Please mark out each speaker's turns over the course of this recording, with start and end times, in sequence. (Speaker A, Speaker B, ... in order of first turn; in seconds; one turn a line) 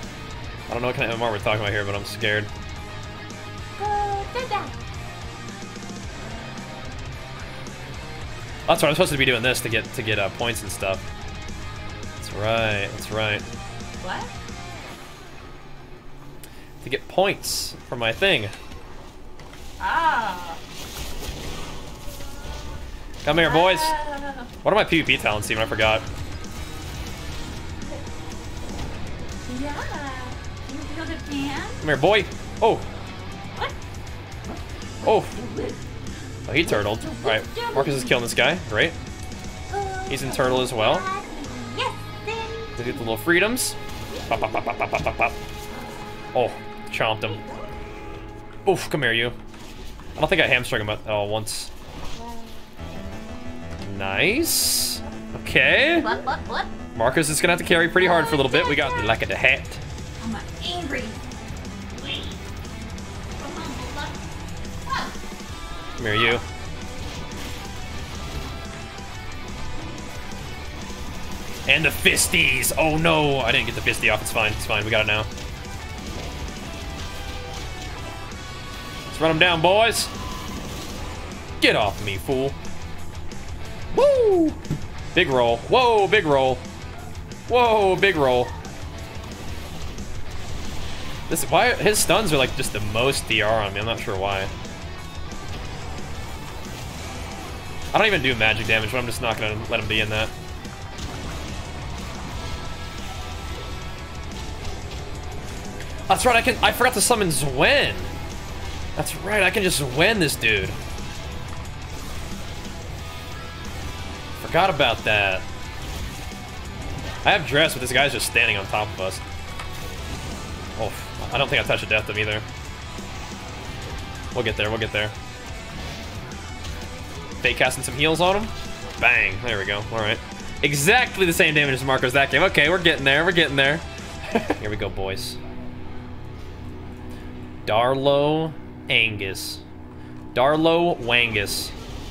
Speaker A: 0.7-2.5
Speaker B: 3.8-4.8
Speaker A: 8.7-11.1
Speaker A: 12.2-13.4
Speaker B: 14.0-14.3
Speaker A: 16.8-18.5
Speaker B: 19.8-20.6
Speaker A: 23.2-24.0
Speaker B: 23.3-24.5
Speaker A: 24.6-26.1
Speaker B: 29.5-31.8
Speaker A: 31.8-32.9
Speaker A: 35.0-35.4
Speaker B: 35.2-35.8
Speaker A: 36.5-39.0
Speaker B: 36.7-38.2
Speaker B: 39.7-42.8
Speaker A: 40.1-41.1
Speaker A: 42.8-43.8
Speaker A: 44.3-45.4
Speaker B: 45.7-46.1
Speaker A: 46.3-47.4
Speaker A: 48.7-49.4
Speaker A: 50.2-51.7
Speaker B: 52.1-52.7
Speaker A: 53.8-56.1
Speaker B: 55.9-56.7
Speaker A: 57.0-59.8
Speaker B: 58.0-59.1
Speaker B: 60.2-61.2
Speaker B: 62.0-62.4
Speaker B: 63.4-64.2
Speaker B: 64.9-65.1
Speaker A: 66.0-66.4
Speaker A: 71.7-75.3
Speaker A: 79.1-80.1
Speaker A: 81.6-82.6
Speaker A: 83.9-84.6
Speaker A: 85.1-86.6
Speaker A: 87.5-88.5
Speaker A: 91.3-94.5
Speaker A: 97.9-100.3
Speaker A: 106.1-108.1
Speaker A: 109.0-110.8
Speaker A: 114.4-115.5
Speaker A: 117.2-119.2
Speaker A: 120.8-122.5
Speaker A: 124.3-125.2
Speaker A: 127.4-135.4
Speaker A: 137.7-139.6
Speaker A: 140.3-141.8